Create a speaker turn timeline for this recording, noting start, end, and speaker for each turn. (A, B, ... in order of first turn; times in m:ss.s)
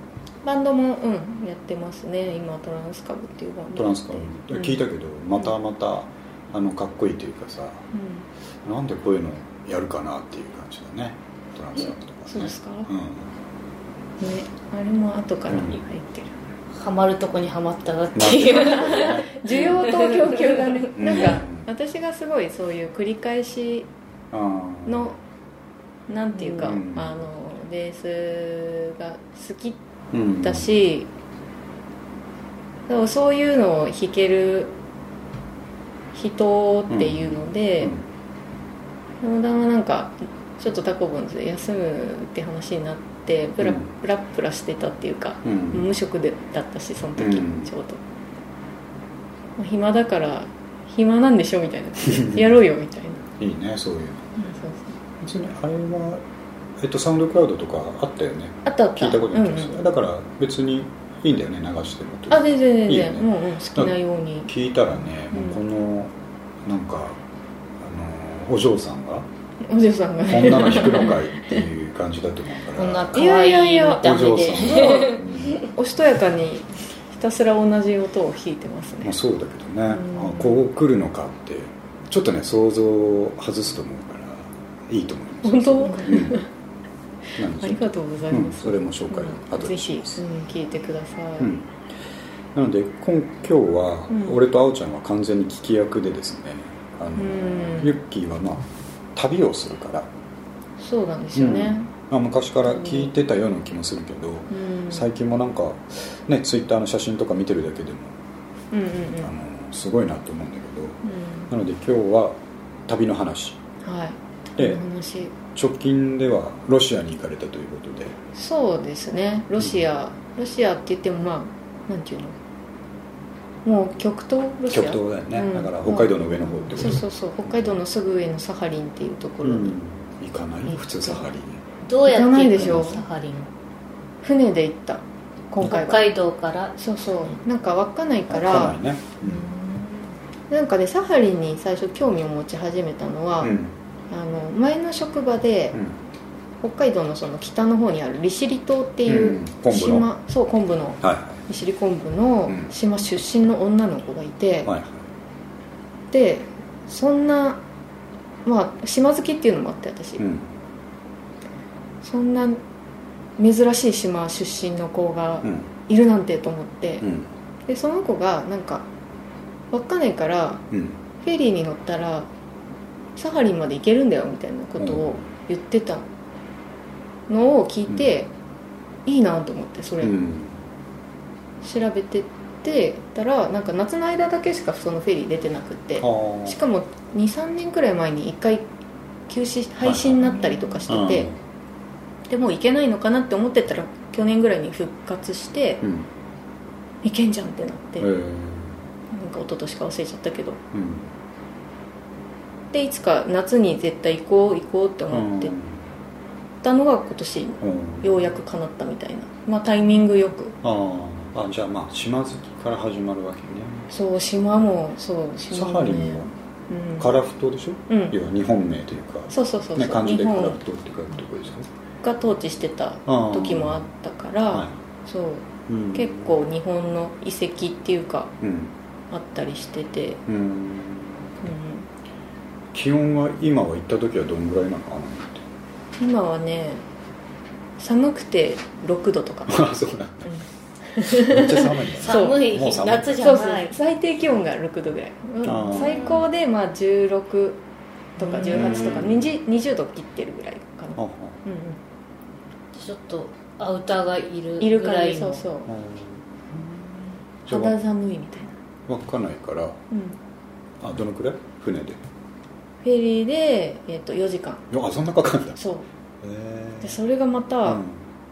0:00.4-0:04.8 A
0:03.7-0:07.9 B
0:07.9-0:08.3 A
0:08.6-0:13.3 B
0:12.3-0:12.9 A
0:14.2-0:16.4 A
0:15.5-0:15.8 B
0:16.7-0:20.8 C
0:18.1-0:19.6 B
0:18.6-0:23.9 A
0:20.9-0:21.7 B
0:24.3-0:25.1 B
0:24.8-0:25.2 A
0:26.1-0:29.8 A
0:26.4-0:26.7 C
0:26.6-0:27.1 B
0:30.1-0:30.7 B
0:30.4-0:31.1 A
0:32.9-0:34.7 A
0:36.1-0:37.9 A
0:36.9-0:38.0 B
0:39.2-0:48.0 A
0:43.6-0:43.9 B
0:45.4-0:45.9 B
0:47.2-0:47.7 B
0:49.6-0:53.2 A
0:52.0-0:52.5 B
0:53.4-0:54.3 B
0:54.4-0:55.0 A
0:55.2-0:56.2 B
0:56.8-1:06.1 B
0:58.6-0:59.8 A
1:02.3-1:04.5 A
1:05.3-1:05.6 A
1:06.6-1:07.2 B
1:07.8-1:09.2 B
1:09.6-1:11.6 A
1:10.3-1:13.2 B
1:12.7-1:15.6 C
1:13.1-1:19.1 A
1:14.0-1:15.7 B
1:19.0-1:26.4 B
1:19.9-1:20.6 A
1:25.4-1:26.4 A
1:27.4-1:30.2 B
1:27.6-1:31.5 A
1:31.4-1:31.7 B
1:32.5-1:40.1 B
1:34.1-1:34.4 A
1:37.2-1:38.0 A
1:40.8-1:41.9 A
1:41.3-1:48.2 B
1:42.6-1:43.1 A
1:44.5-1:45.0 A
1:48.7-1:49.3 A
1:49.2-1:52.4 B
1:51.0-1:51.5 A
1:52.9-1:53.6 B
1:53.8-1:55.3 A
1:54.6-1:54.8 B
1:55.4-1:58.2 B
1:58.3-2:02.4 A
2:03.6-2:09.8 A
2:04.7-2:07.8 B
2:09.4-2:11.6 B
2:10.7-2:11.2 A
2:11.8-2:13.5 C
2:12.0-2:13.0 A
2:12.6-2:12.8 B
2:14.2-2:16.1 A
2:15.6-2:16.8 C
2:16.8-2:23.5 A
2:18.3-2:19.5 B
2:23.4-2:23.7 B
2:24.1-2:25.8 A
2:25.7-2:26.0 B
2:26.6-2:34.7 A
2:29.0-2:30.1 B
2:31.0-2:31.4 B
2:32.5-2:32.7 B
2:34.6-2:35.0 B
2:36.1-2:37.6 A
2:38.4-2:40.2 A
2:40.2-2:40.5 B
2:42.0-2:42.6 A
2:43.4-2:47.0 A
2:45.4-2:45.7 B
2:47.0-2:47.3 B
2:47.7-2:48.9 A
2:49.7-2:50.6 A
2:50.7-2:51.0 B
2:51.2-2:52.3 A
2:53.2-2:56.1 A
2:54.8-2:55.3 B
2:57.3-2:58.3 A
2:59.0-3:00.1 A
3:00.0-3:00.6 B
3:01.6-3:08.6 A
3:06.0-3:06.6 B
3:09.3-3:11.3 A
3:09.8-3:10.4 B
3:10.9-3:11.4 B
3:12.3-3:15.8 A
3:15.8-3:16.1 B
3:17.0-3:18.1 A
3:18.0-3:18.8 B
3:19.1-3:20.6 A
3:20.7-3:21.1 B
3:22.7-3:25.5 A
3:25.1-3:25.8 B
3:26.6-3:30.6 A
3:27.6-3:28.2 B
3:30.6-3:33.9 B
3:33.9-3:37.1 A
3:35.5-3:36.3 B
3:37.0-3:41.7 B
3:37.9-3:38.1 A
3:39.3-3:40.6 A
3:42.0-3:48.3 A
3:43.1-3:43.9 B
3:44.5-3:44.8 B
3:45.7-3:46.3 B
3:48.4-3:48.7 B
3:49.1-3:50.2 A
3:50.3-3:51.3 B
3:51.4-3:51.9 A
3:52.7-3:55.4 B
3:56.0-3:56.8 A
3:57.8-3:59.6 A
3:59.5-4:00.3 B
4:00.2-4:02.5 A
4:01.0-4:03.2 B
4:01.9-4:03.7 C
4:03.2-4:07.6 A
4:05.4-4:06.0 B
4:05.7-4:06.2 C
4:08.2-4:11.8 A
4:08.2-4:09.0 C
4:08.4-4:09.3 B
4:11.0-4:11.4 B
4:12.7-4:15.4 C
4:14.6-4:15.7 A
4:15.7-4:16.9 B
4:17.4-4:18.5 A
4:17.5-4:17.8 B
4:18.9-4:19.8 B
4:19.9-4:20.2 A
4:20.8-4:22.0 B
4:22.8-4:24.6 A
4:24.7-4:25.6 B
4:25.6-4:25.9 A
4:26.2-4:27.0 B
4:26.8-4:27.8 A
4:27.6-4:28.0 B